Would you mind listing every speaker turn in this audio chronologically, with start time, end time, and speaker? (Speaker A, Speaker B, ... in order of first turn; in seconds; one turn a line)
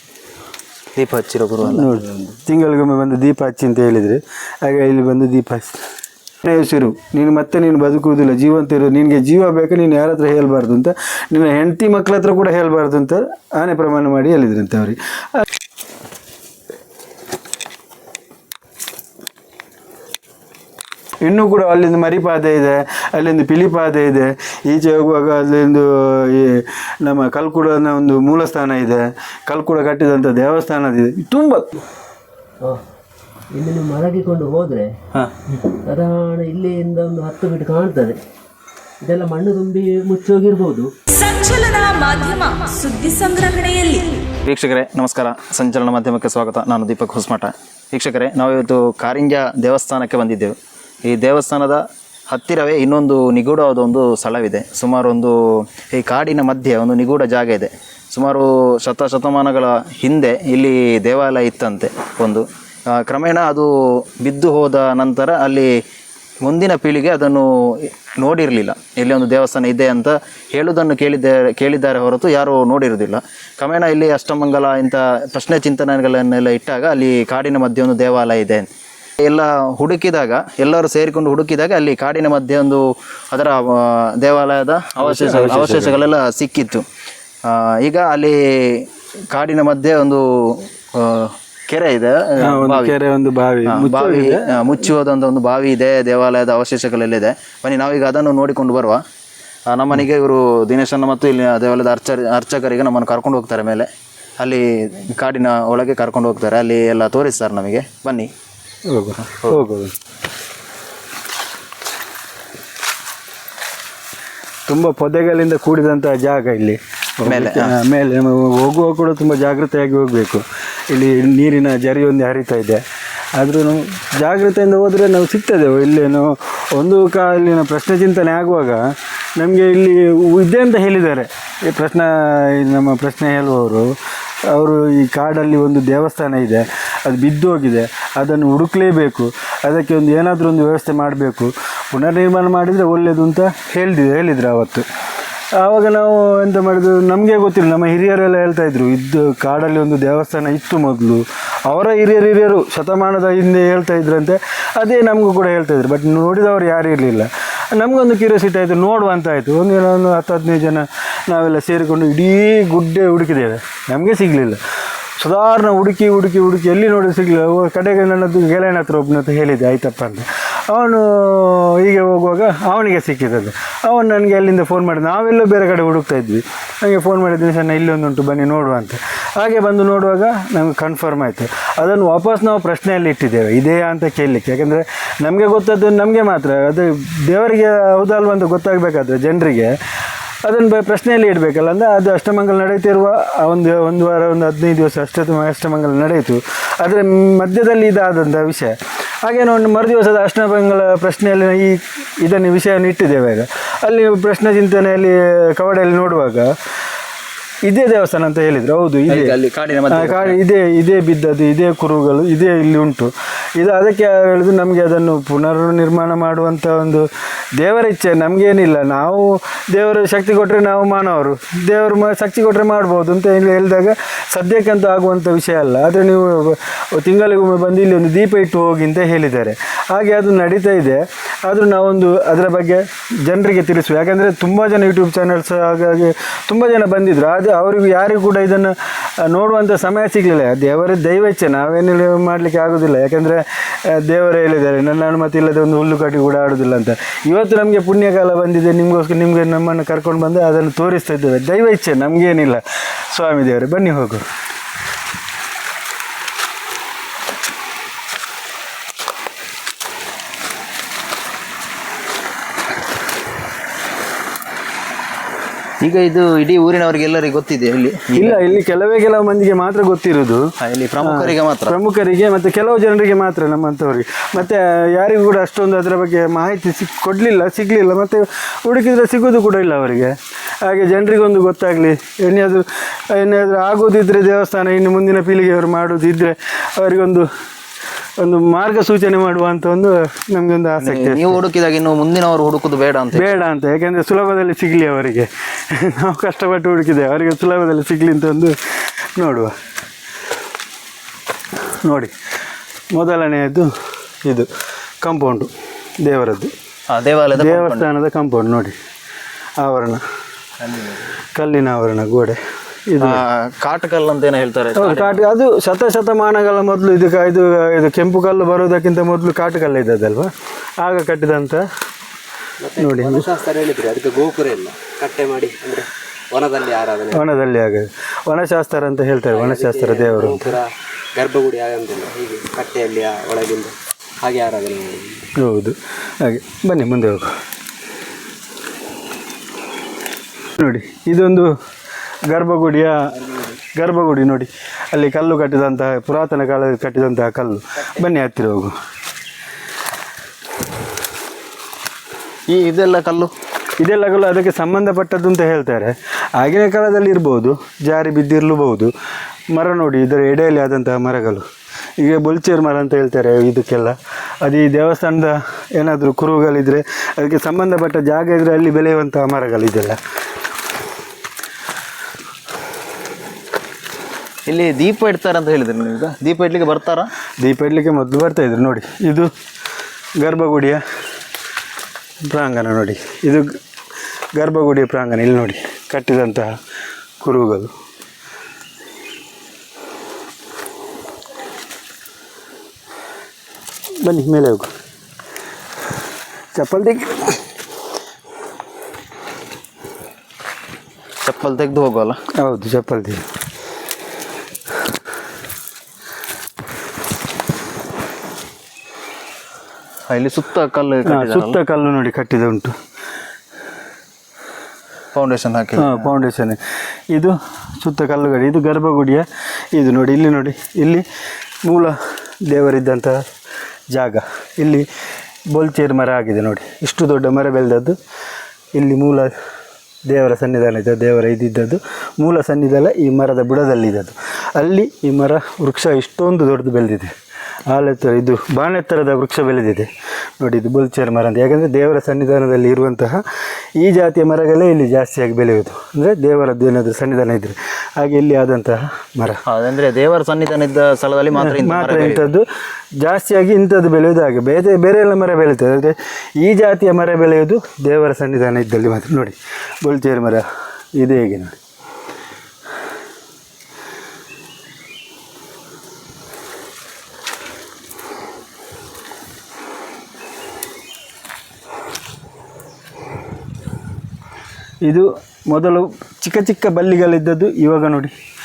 Speaker A: 0.9-2.0
Speaker B: 1.6-5.8
Speaker B: 6.4-15.4
Speaker B: 21.2-31.7
Speaker C: 33.5-34.9
Speaker C: 35.7-38.2
Speaker C: 39.0-40.9
Speaker D: 41.1-44.2
Speaker A: 44.4-65.7
Speaker A: 66.4-78.7
Speaker A: 79.2-86.8
Speaker B: 85.0-86.0
Speaker A: 87.4-93.0
Speaker B: 92.4-94.5
Speaker A: 93.7-99.0
Speaker A: 99.7-108.3
Speaker B: 108.9-109.9
Speaker B: 114.7-122.8
Speaker A: 117.2-117.7
Speaker B: 123.3-128.8
Speaker B: 129.4-133.9
Speaker B: 134.5-144.9
Speaker B: 145.6-164.6
Speaker B: 165.2-189.7
Speaker B: 190.4-206.5
Speaker B: 207.7-209.3
Speaker A: 209.1-210.4
Speaker B: 209.9-254.2
Speaker A: 265.8-268.4
Speaker B: 268.1-270.5
Speaker A: 270.6-271.8
Speaker B: 271.0-287.3
Speaker B: 288.2-291.4
Speaker A: 290.8-293.4
Speaker B: 293.1-298.6
Speaker B: 299.2-299.5
Speaker B: 301.8-302.1
Speaker B: 302.9-303.7
Speaker B: 305.0-306.5
Speaker A: 306.9-307.9
Speaker B: 307.3-308.8
Speaker B: 309.6-310.0
Speaker B: 311.4-312.4
Speaker B: 312.9-313.2
Speaker A: 313.0-315.2
Speaker B: 314.8-321.7
Speaker C: 322.6-327.2
Speaker B: 322.8-323.3
Speaker B: 327.1-330.5
Speaker C: 329.3-335.2
Speaker B: 335.4-337.4
Speaker B: 340.6-341.5
Speaker B: 342.3-343.1
Speaker B: 343.7-348.8
Speaker A: 352.5-353.3
Speaker B: 353.8-358.9
Speaker B: 359.5-361.4
Speaker B: 362.0-370.0
Speaker A: 374.5-377.1
Speaker B: 377.4-379.3
Speaker B: 380.2-380.8
Speaker B: 382.3-383.5
Speaker B: 384.3-386.5
Speaker B: 387.2-387.7
Speaker B: 394.0-394.7
Speaker B: 396.6-397.4
Speaker A: 401.2-402.2
Speaker B: 402.4-403.2
Speaker A: 410.1-411.6
Speaker B: 411.1-412.7
Speaker A: 415.1-416.1
Speaker B: 415.8-416.6
Speaker B: 417.1-421.1
Speaker B: 421.6-423.2
Speaker B: 423.9-424.9
Speaker B: 425.5-428.0
Speaker B: 428.7-429.3
Speaker B: 430.1-437.1
Speaker B: 437.7-439.9
Speaker B: 440.4-443.2
Speaker B: 443.8-449.4
Speaker A: 449.4-452.3
Speaker B: 451.4-452.5
Speaker B: 453.0-461.6
Speaker B: 474.8-478.1